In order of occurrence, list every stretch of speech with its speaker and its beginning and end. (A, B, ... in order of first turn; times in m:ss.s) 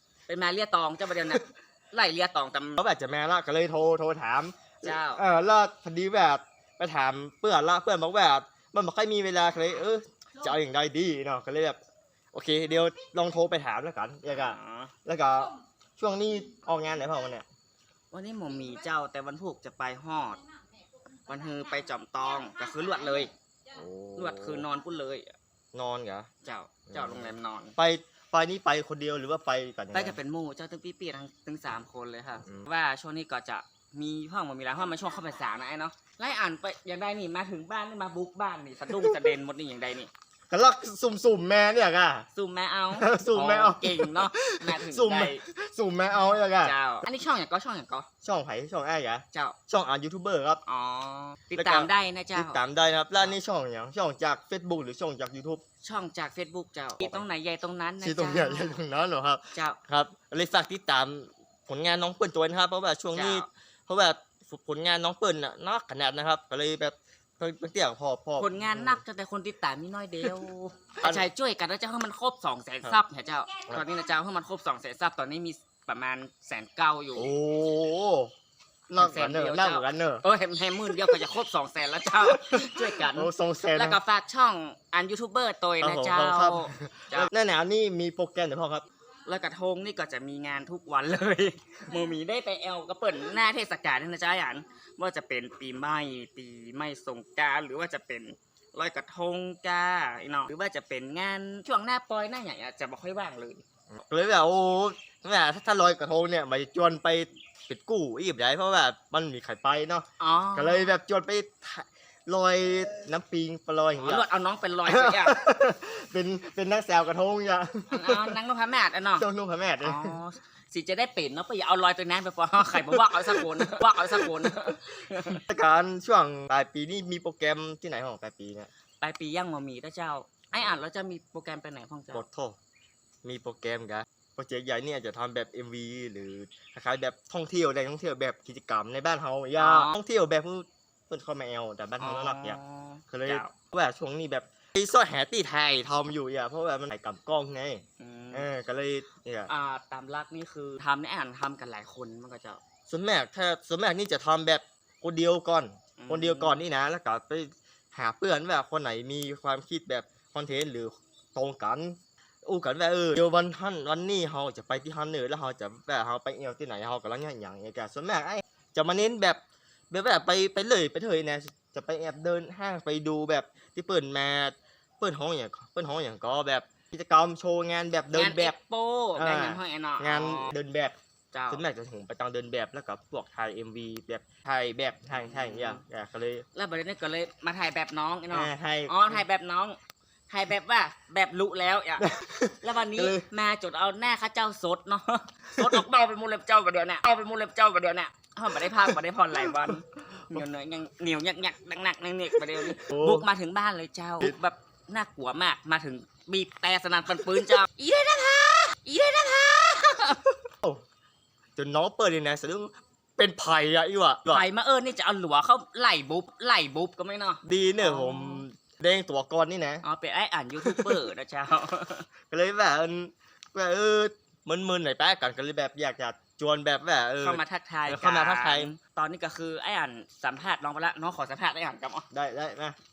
0:00.3-0:02.8 A
0:02.8-0:11.8 B
0:04.8-0:05.2 A
0:12.3-0:17.4 B
0:14.3-0:14.9 A
0:18.1-0:20.4 A
0:21.3-0:23.3 A
0:23.7-0:24.7 B
0:24.2-0:25.3 A
0:25.7-0:26.3 B
0:26.4-0:27.8 A
0:26.9-0:30.2 B
0:29.9-0:40.1 A
0:38.9-0:39.3 B
0:40.5-0:42.3 B
0:42.3-0:45.4 A
0:42.9-0:46.8 B
0:46.6-0:48.1 A
0:48.2-0:50.6 B
0:50.6-0:52.6 A
0:51.6-0:55.6 B
0:55.8-0:58.8 A
0:58.0-1:09.0 B
1:03.1-1:03.5 A
1:08.4-1:17.3 A
1:17.1-1:18.3 B
1:18.9-1:20.2 B
1:19.0-1:27.3 A
1:20.9-1:21.2 B
1:22.2-1:24.0 B
1:25.8-1:28.9 B
1:29.2-1:43.6 A
1:43.9-1:54.2 B
1:50.2-1:50.9 A
1:54.0-1:55.4 A
1:54.8-1:58.3 B
1:57.9-1:59.2 A
1:59.2-2:00.1 B
1:59.8-2:05.4 A
2:02.6-2:04.8 B
2:05.3-2:08.7 B
2:09.0-2:12.2 A
2:12.1-2:12.6 B
2:13.2-2:22.6 B
2:19.6-2:19.9 A
2:22.0-2:23.5 A
2:23.1-2:29.5 B
2:28.0-2:28.5 A
2:29.5-2:32.6 A
2:32.9-2:58.5 B
2:36.0-2:36.6 A
2:58.1-3:00.5 A
2:59.2-3:01.0 B
3:01.3-3:01.6 A
3:01.5-3:06.4 B
3:05.1-3:05.8 A
3:06.5-3:09.8 A
3:08.3-3:09.2 B
3:10.3-3:30.5 A
3:12.0-3:13.2 B
3:15.6-3:15.8 B
3:18.6-3:19.8 B
3:22.6-3:23.3 B
3:31.6-3:34.4 B
3:34.3-3:38.4 A
3:37.4-3:39.8 B
3:39.8-3:42.1 A
3:40.6-3:41.1 B
3:42.3-3:48.7 B
3:47.2-3:52.0 A
3:52.1-3:52.8 B